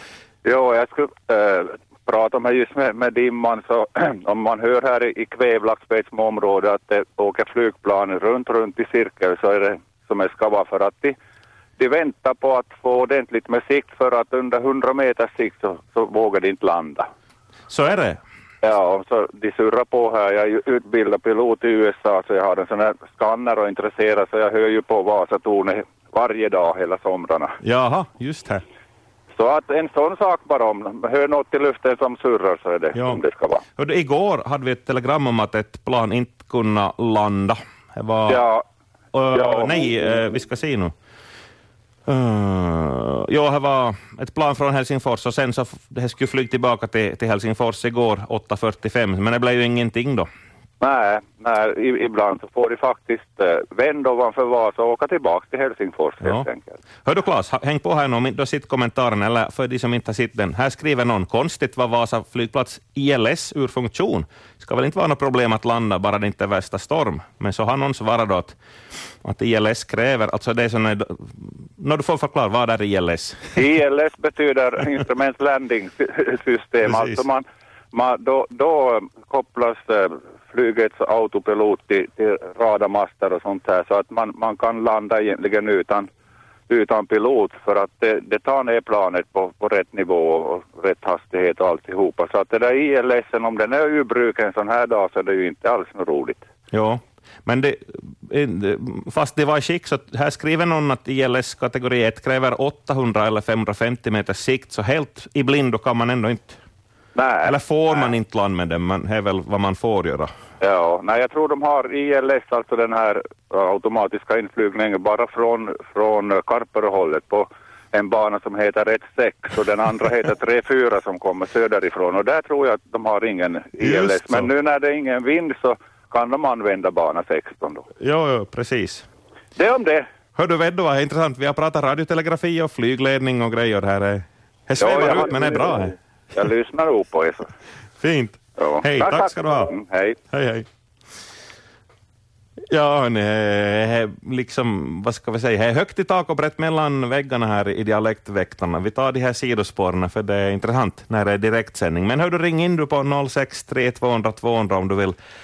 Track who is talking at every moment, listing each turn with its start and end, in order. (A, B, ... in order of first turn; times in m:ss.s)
0:00.4-0:11.2 A
0:11.8-0:17.1 A
0:17.7-0:18.2 B
0:18.6-0:27.6 A
0:27.6-0:28.6 B
0:29.4-0:33.6 A
0:33.0-0:33.2 B
0:33.8-0:38.4 B
0:38.3-0:38.6 A
0:39.1-0:40.9 B
0:39.4-0:39.7 A
0:42.1-0:50.3 B
0:50.8-0:56.8 A
0:57.0-1:08.6 B
1:09.2-1:13.5 B
1:13.6-1:26.1 A
1:16.9-1:17.2 B
1:26.7-1:36.4 A
1:36.7-1:46.6 B
1:47.2-1:48.1 A
1:47.4-1:50.3 B
1:50.6-2:07.9 A
2:03.8-2:04.5 B
2:08.0-2:09.1 B
2:09.6-2:10.1 A
2:10.4-2:15.9 B
2:14.8-2:17.5 A
2:18.0-2:19.7 B
2:18.6-2:20.2 A
2:20.3-2:20.7 B
2:22.7-2:35.2 B